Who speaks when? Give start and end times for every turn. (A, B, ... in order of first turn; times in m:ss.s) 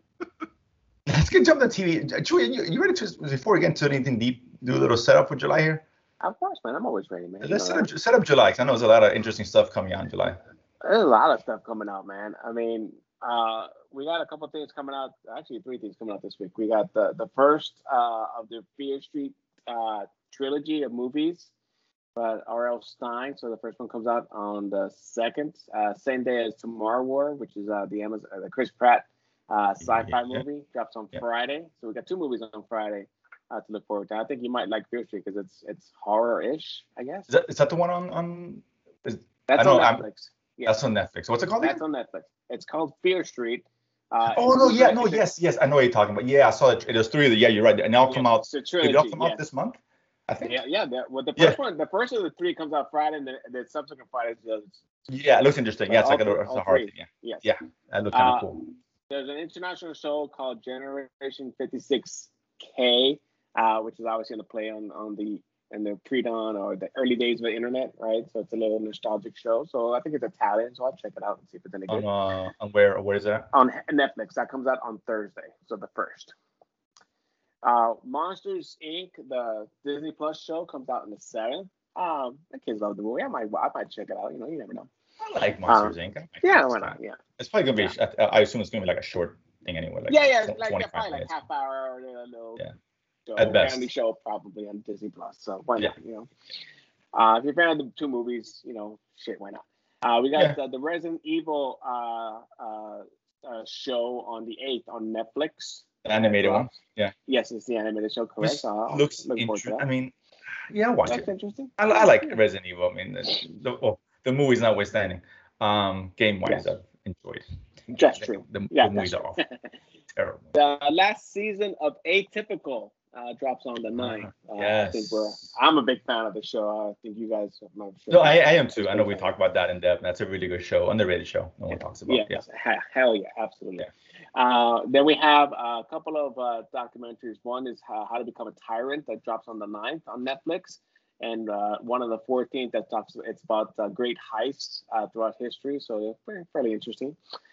0:01.1-0:05.8 A
0:06.2-0:07.9 B
0:07.4-0:10.4 A
0:10.8-0:21.5 B
0:22.2-0:37.3 B
0:29.8-0:30.4 A
0:37.3-0:40.0 A
0:39.5-0:40.8 B
0:40.6-0:41.8 A
0:41.6-0:45.2 B
0:44.3-0:50.6 A
0:48.1-0:49.4 B
0:50.4-0:54.8 B
0:55.1-0:58.7 A
0:55.9-0:57.4 B
0:58.1-0:58.5 B
0:59.1-1:12.1 B
1:11.9-1:13.5 A
1:13.5-1:16.3 B
1:17.6-1:24.9 B
1:25.2-1:31.3 A
1:25.6-1:27.2 B
1:30.1-1:32.6 B
1:33.3-1:36.3 B
1:33.4-1:33.9 A
1:37.1-1:49.9 B
1:46.0-1:47.1 A
1:48.4-1:50.1 A
1:50.7-1:59.4 A
1:51.1-1:52.4 B
1:57.9-1:59.5 B
2:00.2-2:00.5 A
2:00.5-2:09.3 B
2:04.0-2:05.5 A
2:08.1-2:12.4 A
2:12.1-2:27.2 B